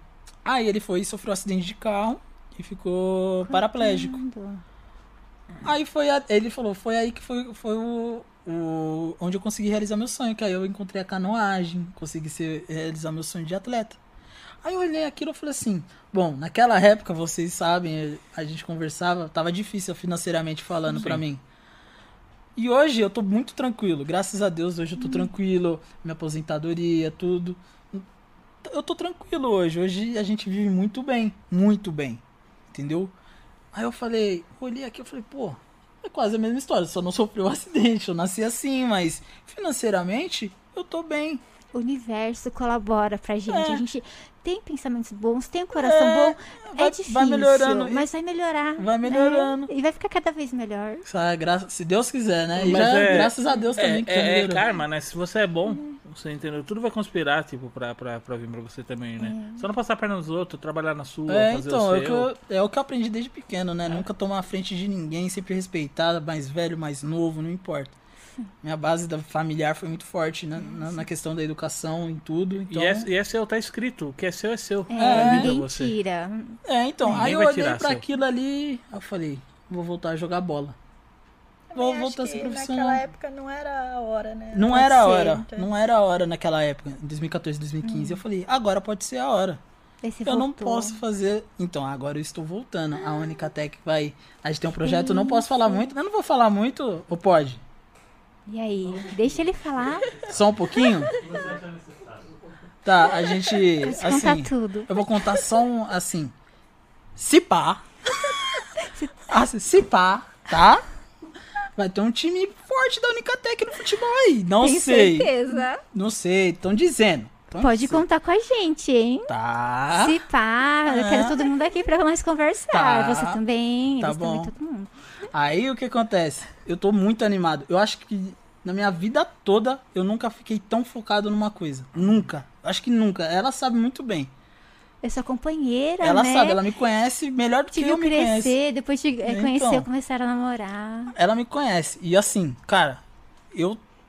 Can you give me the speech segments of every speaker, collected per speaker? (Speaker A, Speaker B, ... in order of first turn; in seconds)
Speaker A: 0.4-4.2, 5.6-14.0, 14.6-21.4, 22.6-28.0, 28.6-33.1, 33.7-41.4, 43.5-43.8, 45.7-48.1, 48.8-49.7, 51.0-54.6, 61.3-67.9, 68.6-73.1, 75.0-75.5, 76.6-80.8, 81.7-83.0, 84.5-89.6, 90.2-97.6, 100.3-101.1, 102.8-106.3, 107.2-107.8, 109.3-110.8, 111.8-118.0, 119.3-120.2, 120.8-121.5, 122.7-123.4, 124.0-124.5, 125.3-134.3, 136.0-138.6, 139.2-139.9, 141.1-143.0, 143.5-143.8
Speaker B: 3.4-4.6, 25.0-25.3, 41.7-51.0, 55.7-56.0, 59.2-59.6, 70.6-71.0, 74.9-77.2, 84.7-85.4, 87.8-88.2, 90.0-91.0, 94.8-95.9, 98.5-100.3, 103.8-105.5, 108.8-109.3, 114.6-115.8, 117.6-119.3, 119.9-124.9, 135.0-136.6, 137.7-141.1
Speaker C: 20.9-21.2, 52.6-62.3, 72.7-75.9, 77.0-78.0, 101.2-102.2
Speaker D: 81.7-85.7